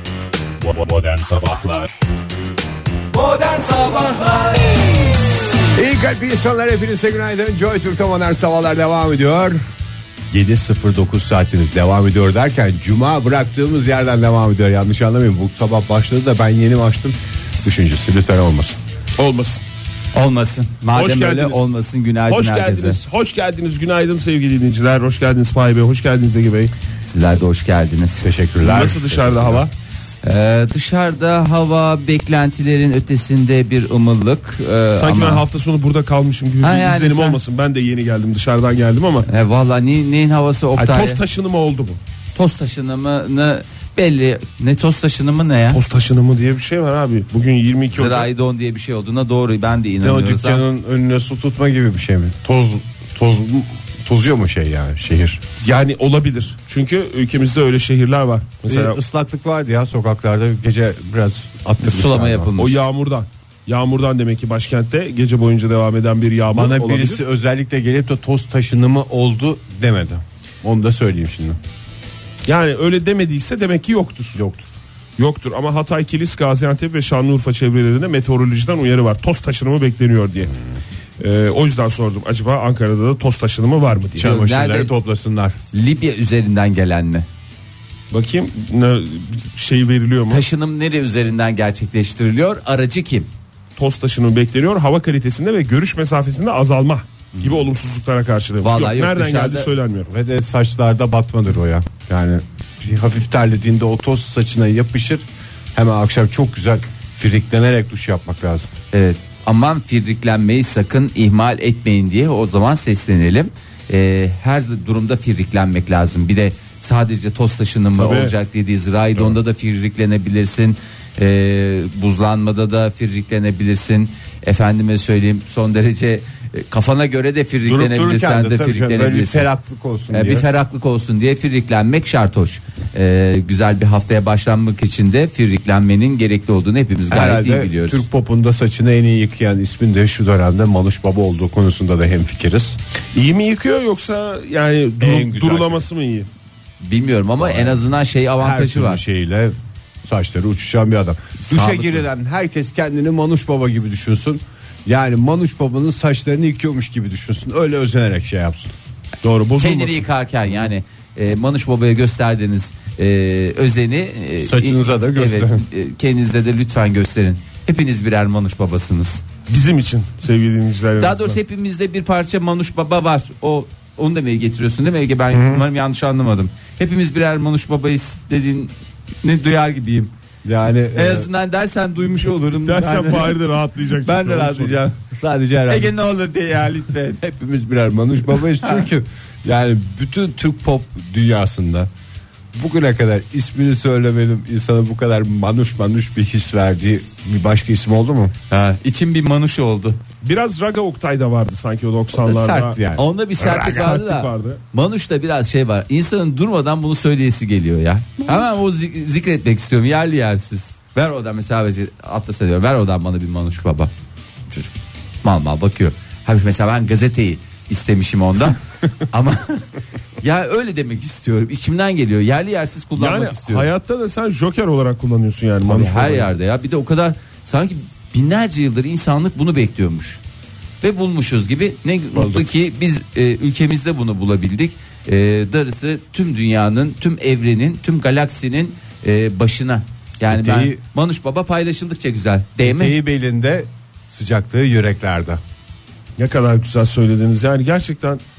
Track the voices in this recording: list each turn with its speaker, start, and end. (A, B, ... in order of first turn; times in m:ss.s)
0:00.6-0:01.9 A
0:03.2-0:04.9 A
0:05.7-0:09.6 A
0:10.3-0:18.8 A
0:19.2-0:19.6 B
0:20.1-0:23.0 C
0:20.9-0:21.7 B
0:22.3-0:26.7 B
0:27.0-0:28.3 C
0:28.2-0:29.6 A
0:28.6-0:29.7 B
0:30.2-0:35.4 C
0:35.0-0:39.3 B
0:36.6-0:37.4 C
0:39.3-0:41.2 C
0:40.8-0:42.0 B
0:42.4-0:45.8 C
0:45.7-0:48.3 B
0:47.9-0:50.6 C
0:50.0-0:55.4 A
0:55.6-0:59.0 B
0:58.7-1:02.5 A
1:01.8-1:02.8 C
1:02.6-1:07.2 B
1:06.5-1:11.6 A
1:12.5-1:14.4 B
1:14.3-1:14.7 A
1:15.2-1:20.5 B
1:21.2-1:24.3 B
1:24.2-1:25.6 A
1:24.2-1:24.9 C
1:25.7-1:27.3 C
1:28.1-1:30.4 B
1:30.3-1:33.3 C
1:33.8-1:40.1 B
1:37.4-1:37.6 C
1:38.6-1:39.7 C
1:40.1-1:48.7 A
1:48.9-2:09.5 C
1:58.0-1:58.3 B
2:07.6-2:10.5 A
2:10.1-2:18.0 C
2:17.1-2:22.8 A
2:23.1-2:26.3 B
2:25.0-2:25.8 A
2:26.8-2:29.0 C
2:27.4-2:27.8 A
2:28.4-2:38.7 A
2:31.4-2:32.1 C
2:39.2-2:40.1 B
2:39.6-2:49.2 C
2:44.4-2:45.6 A
2:49.5-2:51.4 B
2:51.0-2:58.7 C
2:59.2-3:00.1 C
3:00.4-3:01.3 A
3:00.9-3:03.4 C
3:02.6-3:04.8 B
3:04.0-3:05.0 C
3:05.1-3:06.0 A
3:05.7-3:07.2 C
3:07.2-3:11.9 A
3:12.6-3:18.3 A
3:18.5-3:20.0 C
3:20.2-3:22.8 B
3:22.1-3:23.8 A
3:23.0-3:33.9 C
3:23.4-3:24.6 B
3:35.2-3:39.7 C
3:40.2-3:43.7 C
3:43.0-3:46.3 B
3:45.6-3:50.2 C
3:50.8-4:03.0 C
3:52.2-3:52.5 A
4:00.3-4:00.8 A
4:02.6-4:05.4 A
4:06.2-4:08.2 B